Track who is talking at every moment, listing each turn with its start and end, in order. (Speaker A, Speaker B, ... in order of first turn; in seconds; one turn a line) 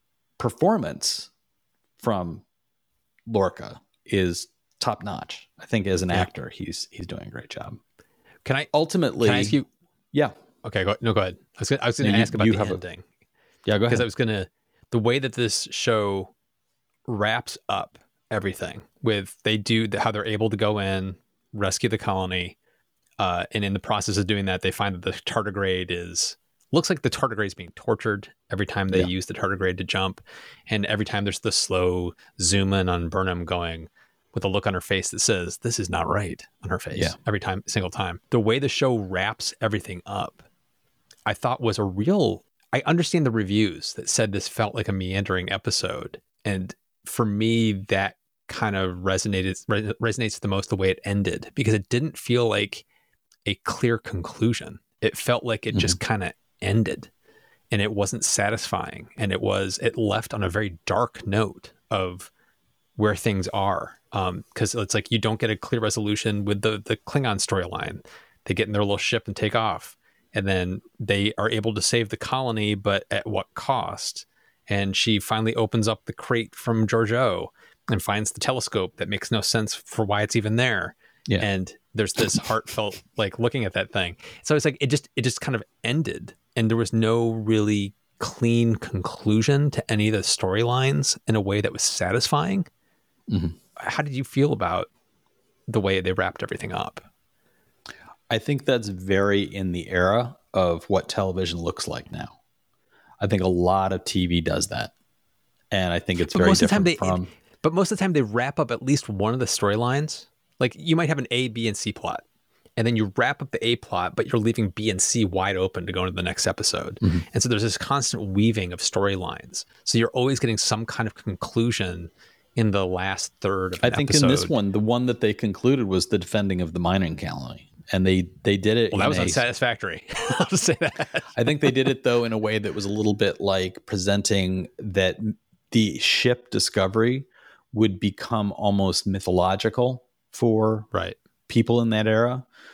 Speaker A: 0.4-1.3
Speaker A: 2.0-2.4
Speaker A: 3.3-7.8
Speaker B: 8.4-9.7
Speaker A: 8.7-9.6
Speaker B: 10.6-13.0
Speaker A: 12.0-12.8
Speaker A: 13.7-14.1
Speaker B: 13.9-16.3
Speaker B: 17.1-22.6
Speaker B: 23.2-40.4
Speaker B: 41.2-52.8
Speaker B: 53.4-57.1
Speaker B: 57.7-62.3
Speaker B: 63.0-92.7
Speaker A: 93.3-93.5
Speaker B: 93.8-94.9
Speaker B: 95.7-97.0
Speaker A: 98.3-102.4
Speaker A: 103.2-104.9
Speaker A: 105.7-107.3
Speaker B: 106.2-112.2
Speaker B: 112.8-124.5
Speaker A: 123.8-129.4
Speaker B: 128.9-131.7
Speaker A: 131.3-140.9
Speaker A: 141.5-142.4